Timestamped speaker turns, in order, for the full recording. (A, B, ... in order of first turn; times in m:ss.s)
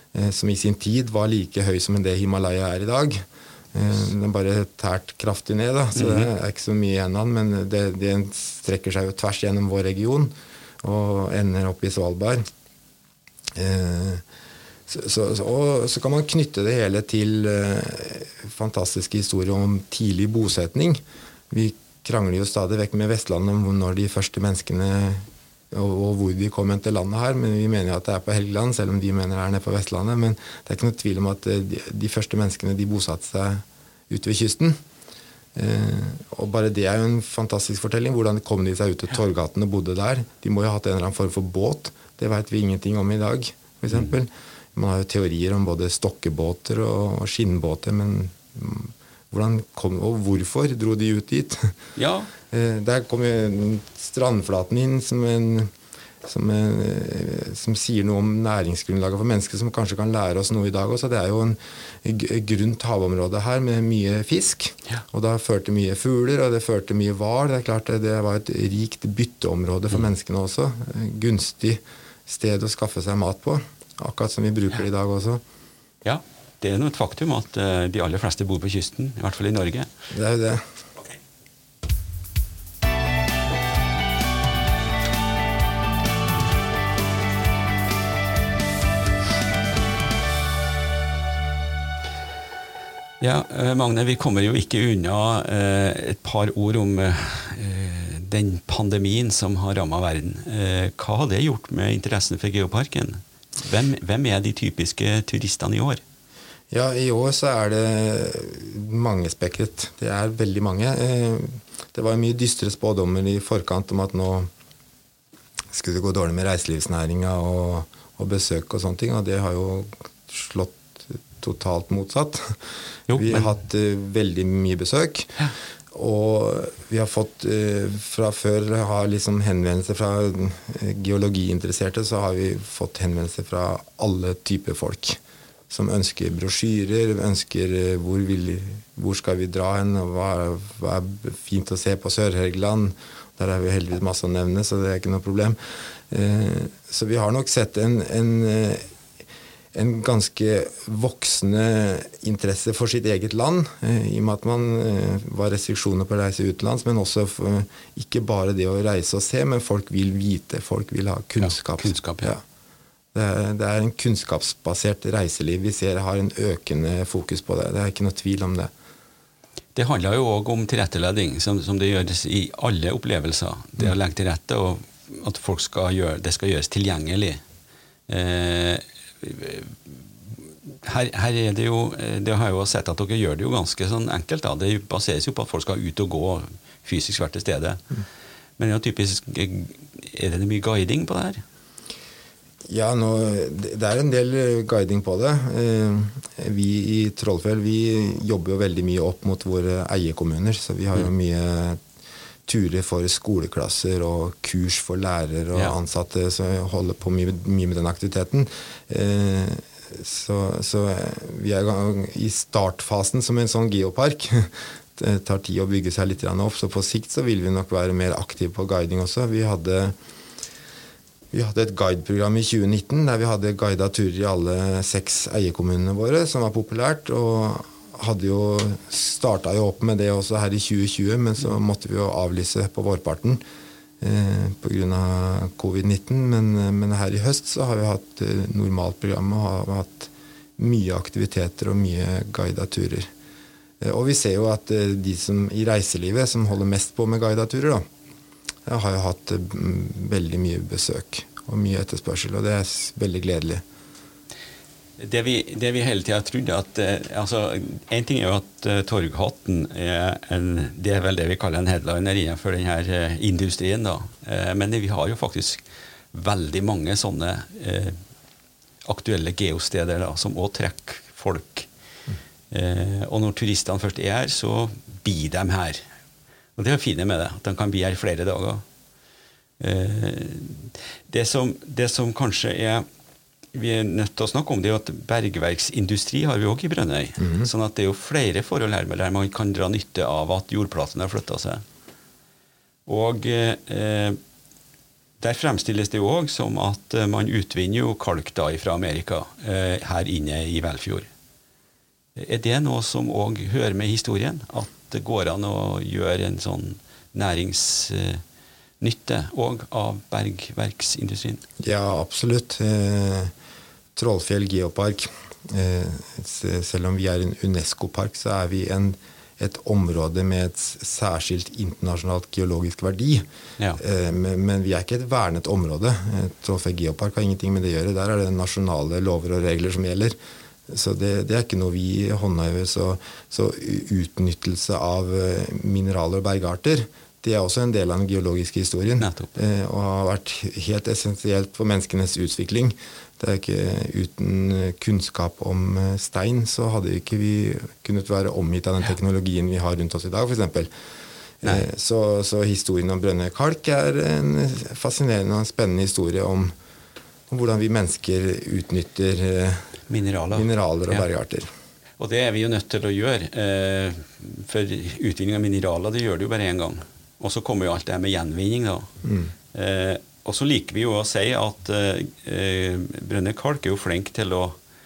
0:00.1-0:12.4 A
0:06.0-0:06.3 B
0:13.6-0:14.2 A
0:14.9-0:34.8 A
0:35.6-0:51.8 A
0:52.0-0:52.3 B
0:52.5-0:55.7 A
0:56.2-1:15.4 A
1:16.0-1:19.9 B
1:20.1-1:20.6 A
1:33.2-1:46.0 B
1:46.7-1:54.5 A
1:55.7-2:02.6 A
2:03.1-2:03.5 B
2:03.1-2:05.4 A
2:05.9-2:15.2 A
2:15.7-2:25.6 A
2:26.1-2:28.9 A
2:29.7-2:42.4 A
2:41.4-2:42.3 B
2:43.1-2:48.7 A
2:49.8-2:57.4 B
2:58.1-3:00.0 B
3:00.7-3:07.8 B
3:08.6-3:11.4 B
3:12.7-3:21.8 A
3:22.5-3:40.0 A
3:41.3-3:53.4 A
3:54.0-4:03.1 A
4:03.8-4:07.8 A
4:08.7-4:13.6 A
4:15.0-4:25.6 B
4:26.1-4:28.0 B
4:28.8-4:31.7 B
4:32.5-4:35.8 B
4:36.6-4:38.6 B
4:39.6-4:42.9 B
4:43.5-4:51.6 B
4:47.2-4:47.5 A
4:52.9-4:54.2 B
4:55.2-5:01.1 B
5:02.2-5:08.2 B
5:08.8-5:11.4 B
5:11.6-5:13.3 A
5:14.0-5:23.3 A
5:23.8-5:30.2 A
5:30.7-5:50.7 A
5:39.0-5:39.3 B
5:51.4-5:56.5 A
5:57.3-5:59.7 A
5:59.9-6:01.0 B
6:00.3-6:01.5 A
6:02.0-6:08.9 B
6:09.0-6:09.3 A
6:09.5-6:14.6 B